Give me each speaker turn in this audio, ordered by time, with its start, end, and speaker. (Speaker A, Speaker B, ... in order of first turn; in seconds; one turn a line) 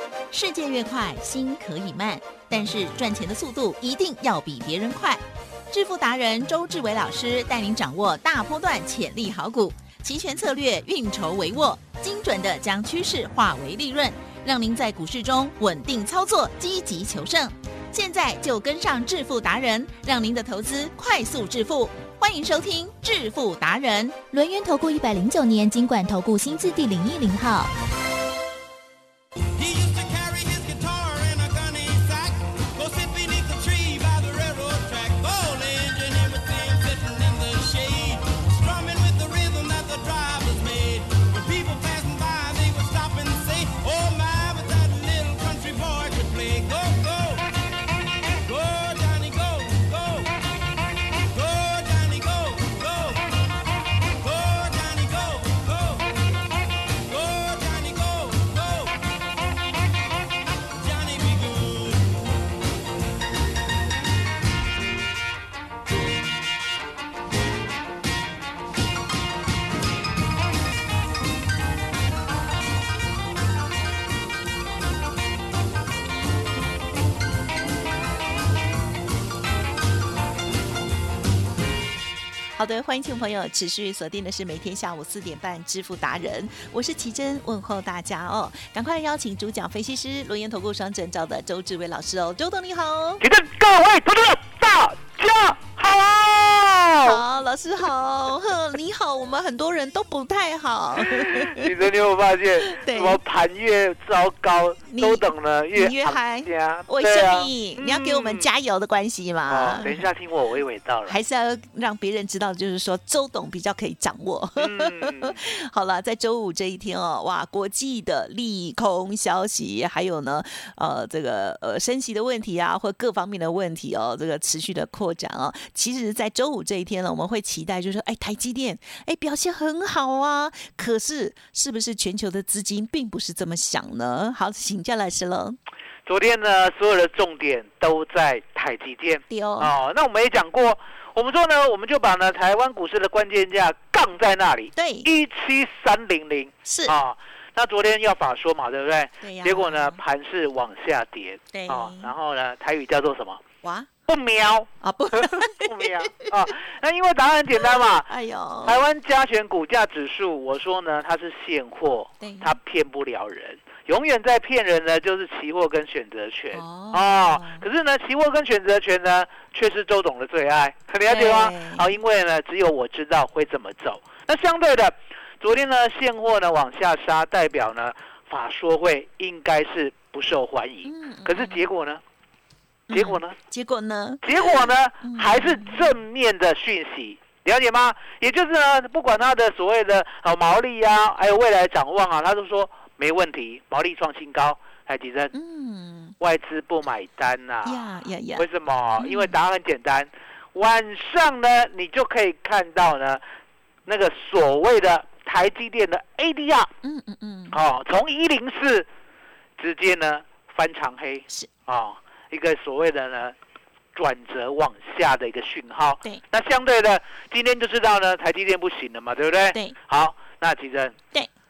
Speaker A: 0.3-24.2
Speaker B: 24.3-27.7
Speaker C: 29.6-47.6
Speaker C: 48.3-50.4
Speaker C: 51.2-53.4
Speaker C: 54.1-56.2
Speaker C: 57.0-59.2
Speaker C: 60.7-62.2
Speaker D: 82.5-93.2
Speaker E: 93.2-97.2
Speaker D: 97.0-101.7
Speaker E: 101.1-108.5
Speaker D: 102.6-103.2
Speaker D: 104.9-110.0
Speaker E: 109.5-111.2
Speaker D: 111.1-135.6
Speaker E: 114.6-115.4
Speaker E: 136.1-153.4
Speaker D: 139.3-139.7
Speaker D: 144.8-145.1
Speaker D: 146.7-146.9
Speaker D: 149.2-150.0
Speaker D: 151.5-152.1
Speaker D: 153.6-153.9
Speaker E: 154.1-158.1
Speaker D: 154.8-156.3
Speaker D: 158.1-158.8
Speaker E: 158.6-182.0
Speaker D: 162.2-162.5
Speaker D: 166.5-167.7
Speaker D: 171.1-171.9
Speaker D: 180.8-181.7
Speaker D: 182.9-186.0
Speaker E: 182.9-183.3
Speaker E: 184.2-195.3
Speaker D: 195.3-196.1
Speaker E: 196.2-203.2
Speaker D: 197.7-199.4
Speaker E: 203.8-206.7
Speaker D: 206.8-207.6
Speaker E: 207.5-208.9
Speaker E: 209.6-213.3
Speaker E: 213.9-220.9